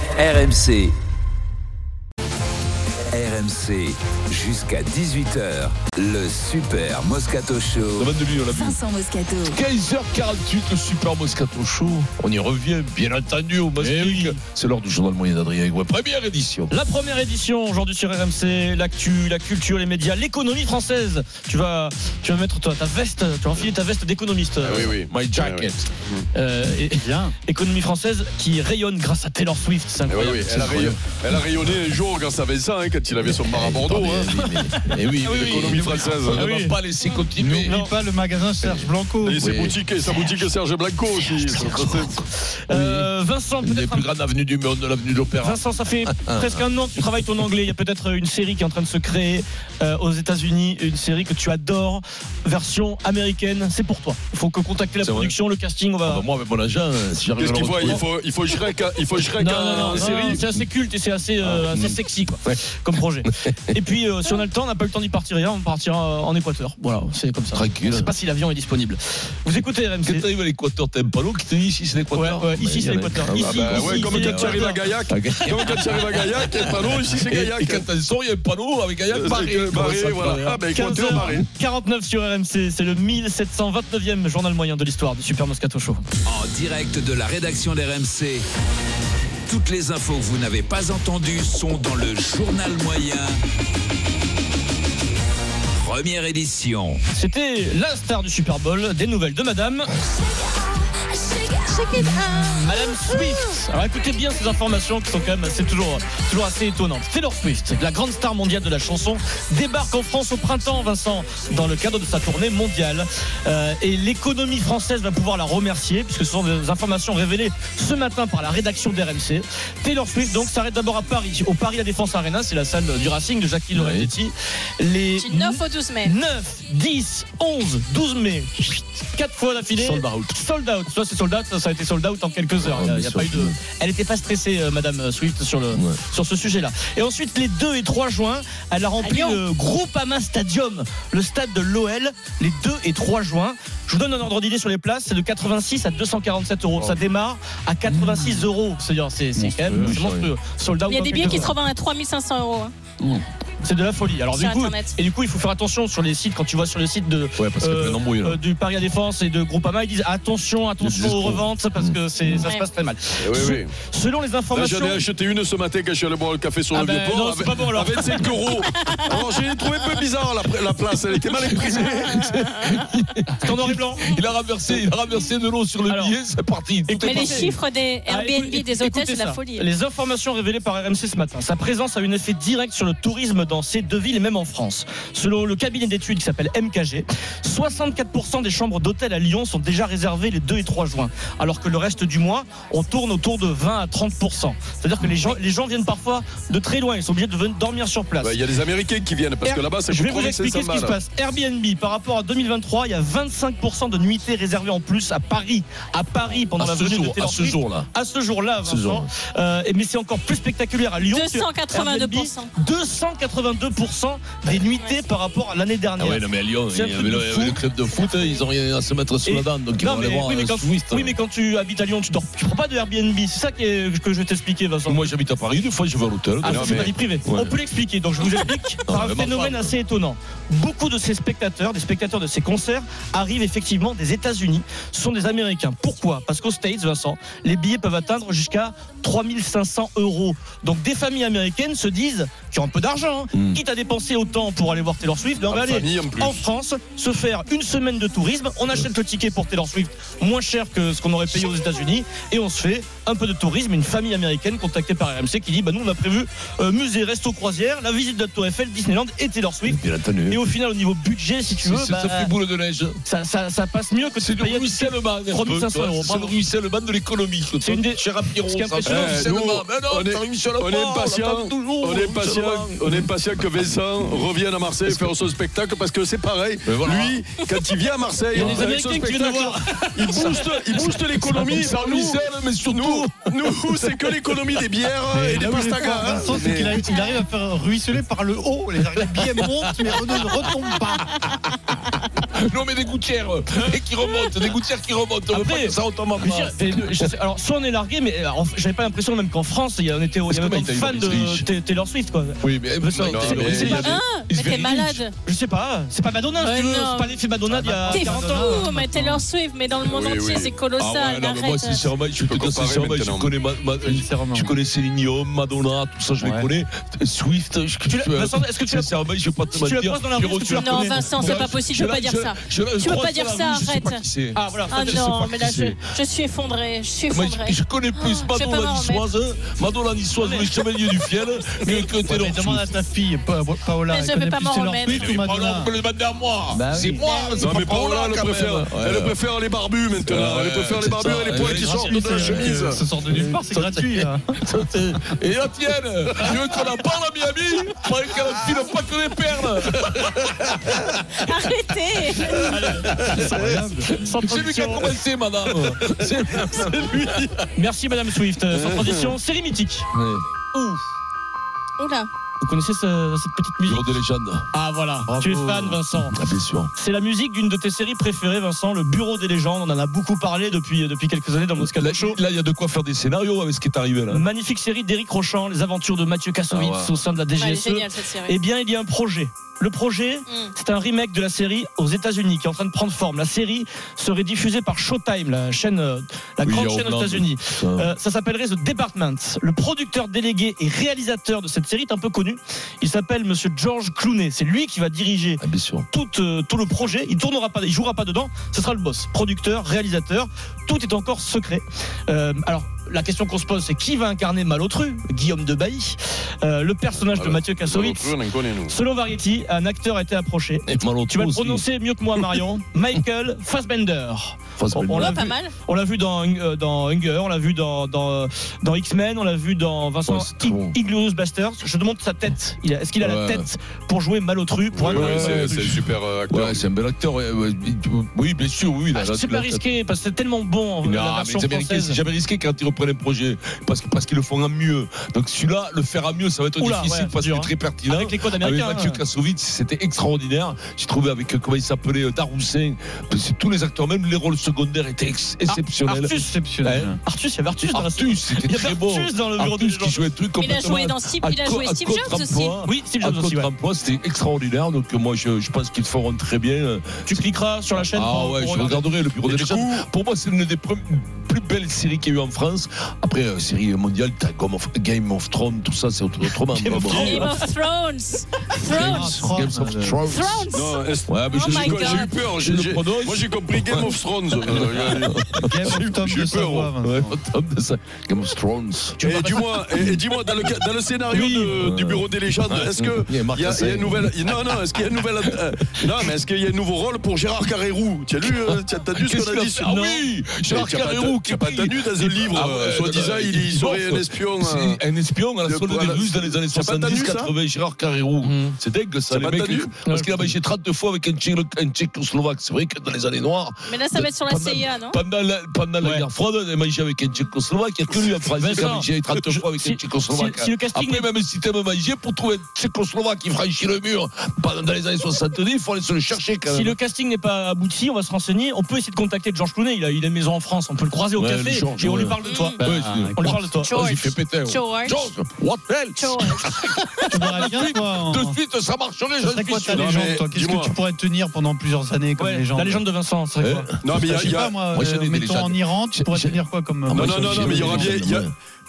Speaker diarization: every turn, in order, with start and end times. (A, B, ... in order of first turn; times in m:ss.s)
0:00.2-0:00.9 A
0:03.1-0:08.1 A
0:08.0-0:08.8 B
0:09.4-0:16.7 B
0:13.8-0:14.4 C
0:16.7-0:25.0 C
0:24.6-0:26.3 D
0:25.1-0:25.9 B
0:26.3-0:30.9 C
0:27.0-0:27.3 E
0:30.1-0:34.4 D
0:30.4-0:31.0 B
0:33.2-0:37.8 B
0:34.5-0:36.8 C
0:35.3-0:36.5 D
0:35.7-0:36.1 E
0:37.4-0:39.4 E
0:37.6-0:37.9 C
0:38.6-0:39.8 B
0:39.2-0:42.2 D
0:41.6-0:42.1 B
0:42.7-0:44.1 C
0:42.7-0:46.6 B
0:45.4-0:56.2 C
0:55.0-0:55.4 B
0:56.0-0:58.0 B
0:57.4-1:00.4 D
0:59.4-1:10.3 C
0:59.6-1:00.7 B
1:01.4-1:02.6 B
1:03.2-1:03.8 B
1:07.5-1:08.1 B
1:10.0-1:21.4 B
1:12.1-1:15.8 C
1:13.4-1:17.9 D
1:19.1-1:21.5 D
1:20.7-1:26.0 C
1:26.3-1:28.5 A
1:29.5-1:33.4 A
1:35.8-1:37.0 A
1:37.1-1:39.9 C
1:41.6-1:42.6 F
1:42.5-2:31.6 C
2:03.7-2:04.1 B
2:05.2-2:06.1 F
2:09.8-2:10.4 B
2:12.6-2:13.6 B
2:15.7-2:16.0 B
2:19.0-2:19.4 F
2:29.4-2:30.3 B
2:30.9-2:32.7 F
2:33.6-2:45.0 C
2:34.3-2:35.0 F
2:37.4-2:38.4 B
2:40.8-2:42.5 B
2:42.4-2:42.7 F
2:43.2-2:43.7 D
2:44.5-2:52.2 D
2:46.7-2:48.3 C
2:48.9-2:49.2 F
2:51.3-2:57.6 B
2:53.4-2:54.1 C
2:55.9-2:56.2 C
2:56.9-3:18.4 C
2:57.0-2:59.6 F
3:18.2-3:21.0 D
3:19.4-3:37.6 C
3:26.6-3:27.9 B
3:28.6-3:29.1 B
3:31.1-3:32.5 F
3:36.0-3:41.2 B
3:38.1-3:38.3 F
3:39.2-3:45.0 C
3:44.9-3:47.6 B
3:46.4-4:22.3 C
3:46.5-3:46.9 D
3:48.9-3:49.8 B
4:03.3-4:03.6 B
4:05.5-4:06.5 D
4:19.7-4:20.4 B
4:21.6-4:23.0 B
4:23.0-4:26.4 C
4:24.2-4:33.1 B
4:27.6-4:29.3 C
4:28.9-4:46.9 D
4:34.8-4:35.2 B
4:36.6-4:37.2 B
4:38.3-4:41.6 C
4:38.4-4:38.6 B
4:41.2-4:44.6 B
4:45.1-4:51.0 E
4:49.0-4:51.7 B
4:52.3-4:57.1 B
4:55.3-5:04.0 C
5:00.3-5:01.5 B
5:02.4-5:05.0 B
5:03.1-5:03.9 D
5:03.6-5:05.1 F
5:05.2-5:08.7 C
5:06.4-5:07.2 F
5:07.5-5:09.2 E
5:07.9-5:11.9 F
5:09.8-5:10.5 D
5:10.8-5:25.8 B
5:12.2-5:13.3 D
5:13.8-5:14.6 E
5:16.2-5:16.5 E
5:17.9-5:19.0 C
5:19.5-5:21.4 C
5:20.5-5:24.0 F
5:22.8-5:23.4 C
5:24.4-5:25.0 C
5:24.7-5:29.1 F
5:27.1-5:32.7 B
5:30.2-5:30.5 C
5:32.0-5:35.8 E
5:33.9-5:35.2 F
5:34.8-5:39.2 B
5:36.5-5:37.0 E
5:37.0-5:37.6 F
5:37.4-5:42.8 D
5:40.0-5:51.0 B
5:41.3-5:44.4 E
5:51.2-5:52.6 F
5:52.2-5:53.3 B
5:52.4-5:54.9 C
5:52.9-5:53.9 E
5:53.9-5:57.3 B
5:55.9-5:57.3 D
5:57.5-5:59.9 C
5:58.5-5:59.1 D
5:59.9-6:00.2 B
6:00.5-6:00.8 C
6:01.8-6:02.1 F
6:02.4-6:03.9 C
6:03.6-6:04.5 B
6:04.5-6:06.2 C
6:05.1-6:05.8 E
6:06.1-6:06.7 B
6:06.7-6:12.2 C
6:11.6-6:14.3 B
6:14.1-7:05.8 C
6:16.5-6:17.0 B
6:17.4-6:18.4 F
6:20.3-6:20.5 F
6:26.4-6:27.9 B
6:35.4-6:35.9 B
6:47.1-6:48.8 D
6:50.7-6:51.7 B
6:54.6-6:55.2 B
6:54.9-6:55.5 F
7:00.1-7:00.8 B
7:03.0-7:03.5 B
7:04.7-7:06.7 D
7:04.9-7:09.6 B
7:08.9-7:12.0 C
7:10.8-7:27.0 B
7:16.6-7:19.0 C
7:25.5-7:30.0 C
7:26.2-7:27.0 E
7:27.6-7:37.2 B
7:30.4-7:32.6 F
7:32.6-7:33.5 C
7:37.1-7:38.9 C
7:37.9-7:47.4 B
7:39.3-7:39.8 D
7:46.8-7:47.3 C
7:46.8-7:47.3 D
7:46.8-7:49.2 F
7:48.7-7:50.5 B
7:48.8-7:50.1 E
7:50.1-7:52.1 F
7:50.5-7:56.7 D
7:51.1-7:55.8 B
7:55.4-7:57.2 E
7:56.8-7:59.0 B
7:59.0-7:59.6 C
7:59.0-8:14.8 D
7:59.8-8:00.6 B
8:01.1-8:01.6 C
8:01.5-8:06.1 B
8:08.2-8:36.8 B
8:09.6-8:10.0 C
8:15.4-8:17.3 D
8:18.2-8:18.6 C
8:19.1-8:19.7 D
8:19.8-8:20.3 C
8:23.7-8:25.0 F
8:25.8-8:26.1 C
8:28.4-8:31.1 C
8:36.5-8:42.6 C
8:41.2-8:50.2 B
8:42.2-8:42.6 F
8:42.6-8:43.6 E
8:43.1-8:43.7 C
8:43.6-8:45.1 F
8:46.0-8:47.5 F
8:47.1-8:48.4 E
8:49.2-8:52.8 E
8:49.7-8:50.8 D
8:52.2-8:53.7 C
8:53.4-8:58.3 B
8:53.8-8:54.5 D
8:54.1-8:58.0 E
8:56.9-8:58.3 D